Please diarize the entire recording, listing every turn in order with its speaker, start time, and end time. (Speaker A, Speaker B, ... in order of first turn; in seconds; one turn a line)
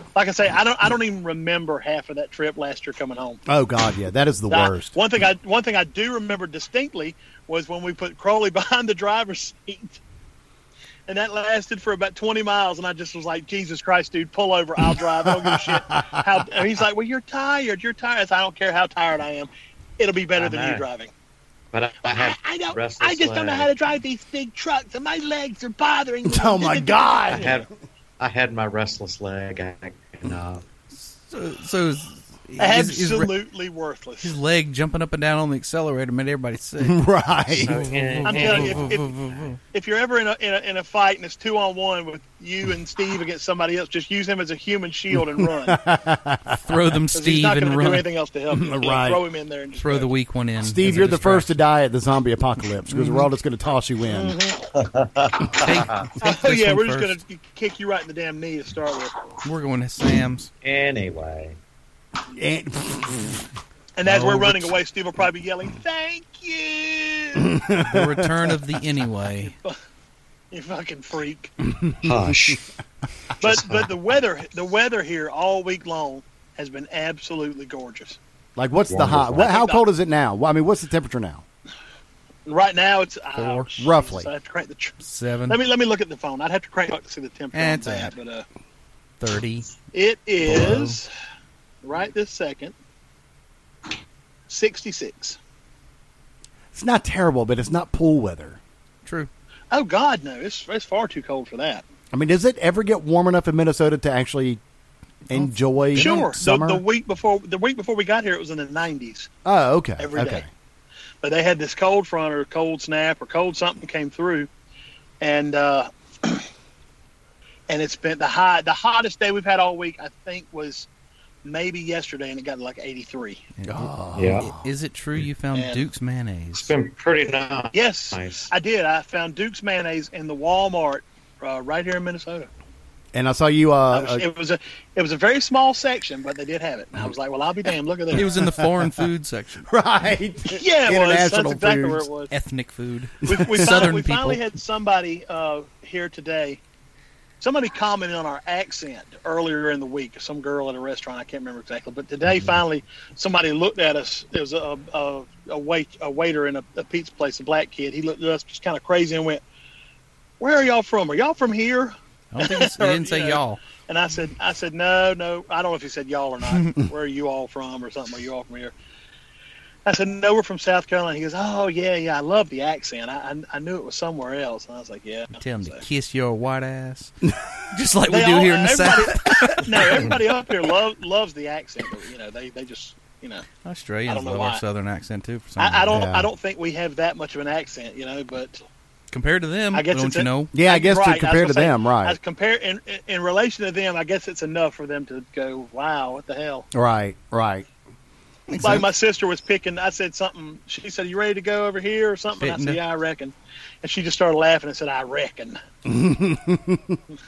Speaker A: 0.1-3.4
Speaker B: 3.5-4.9
Speaker A: 4.5-10.0
Speaker A: 11.1-21.1
Speaker B: 15.2-16.3
Speaker C: 20.4-20.9
Speaker C: 21.7-23.7
Speaker A: 22.1-27.5
Speaker B: 26.2-27.6
Speaker C: 27.3-27.7
Speaker C: 28.2-30.6
Speaker D: 31.0-33.3
Speaker A: 32.6-34.4
Speaker D: 34.2-37.0
Speaker B: 36.8-37.9
Speaker C: 37.5-39.5
Speaker D: 37.5-39.6
Speaker A: 38.2-39.1
Speaker A: 39.7-45.8
Speaker B: 45.4-46.8
Speaker D: 46.6-48.1
Speaker A: 47.1-50.1
Speaker B: 48.5-49.2
Speaker D: 49.8-51.5
Speaker B: 50.6-54.4
Speaker D: 52.9-53.3
Speaker A: 54.1-54.6
Speaker C: 54.6-56.1
Speaker D: 55.6-57.2
Speaker A: 56.2-59.1
Speaker D: 59.4-60.5
Speaker C: 60.6-61.6
Speaker B: 62.3-63.5
Speaker A: 64.0-67.6
Speaker D: 64.0-64.8
Speaker B: 67.4-68.6
Speaker D: 67.8-69.5
Speaker A: 69.5-69.8
Speaker A: 70.5-71.5
Speaker B: 71.8-72.6
Speaker C: 72.0-72.6
Speaker A: 73.4-78.2
Speaker C: 73.4-73.9
Speaker B: 78.6-81.4
Speaker C: 78.9-79.5
Speaker A: 79.3-79.8
Speaker A: 82.5-85.0
Speaker B: 83.7-84.3
Speaker D: 85.0-85.6
Speaker A: 85.5-88.4
Speaker D: 87.5-88.1
Speaker D: 89.2-89.7
Speaker A: 89.9-91.1
Speaker D: 90.4-91.0
Speaker A: 91.8-92.8
Speaker A: 94.5-95.4
Speaker B: 96.7-98.6
Speaker D: 99.0-99.3
Speaker A: 99.7-101.8
Speaker B: 102.1-104.6
Speaker B: 105.3-106.8
Speaker D: 105.3-106.3
Speaker A: 106.0-109.3
Speaker B: 109.4-110.5
Speaker A: 110.0-110.4
Speaker A: 111.2-114.5
Speaker A: 115.2-116.4
Speaker A: 117.7-120.9
Speaker A: 121.4-123.4
Speaker D: 123.6-126.7
Speaker B: 123.7-124.7
Speaker C: 124.1-124.5
Speaker A: 125.5-125.8
Speaker C: 126.5-128.5
Speaker A: 127.7-132.5
Speaker B: 133.1-134.2
Speaker A: 133.9-138.3
Speaker D: 138.1-139.7
Speaker B: 138.3-139.1
Speaker B: 139.7-142.1
Speaker A: 140.5-142.3
Speaker D: 142.3-144.4
Speaker A: 143.2-146.6
Speaker B: 143.3-144.0
Speaker A: 147.4-159.4
Speaker A: 160.4-168.7
Speaker D: 162.3-163.6
Speaker A: 169.9-175.8
Speaker D: 175.4-180.2
Speaker A: 178.1-183.5
Speaker D: 183.6-185.9
Speaker A: 184.1-184.6
Speaker A: 185.6-188.6
Speaker B: 185.9-186.3
Speaker D: 189.1-190.5
Speaker A: 189.7-196.7
Speaker B: 190.5-192.2
Speaker B: 196.7-197.7
Speaker D: 198.5-198.8
Speaker A: 198.6-205.6
Speaker D: 202.4-202.8
Speaker B: 205.8-207.0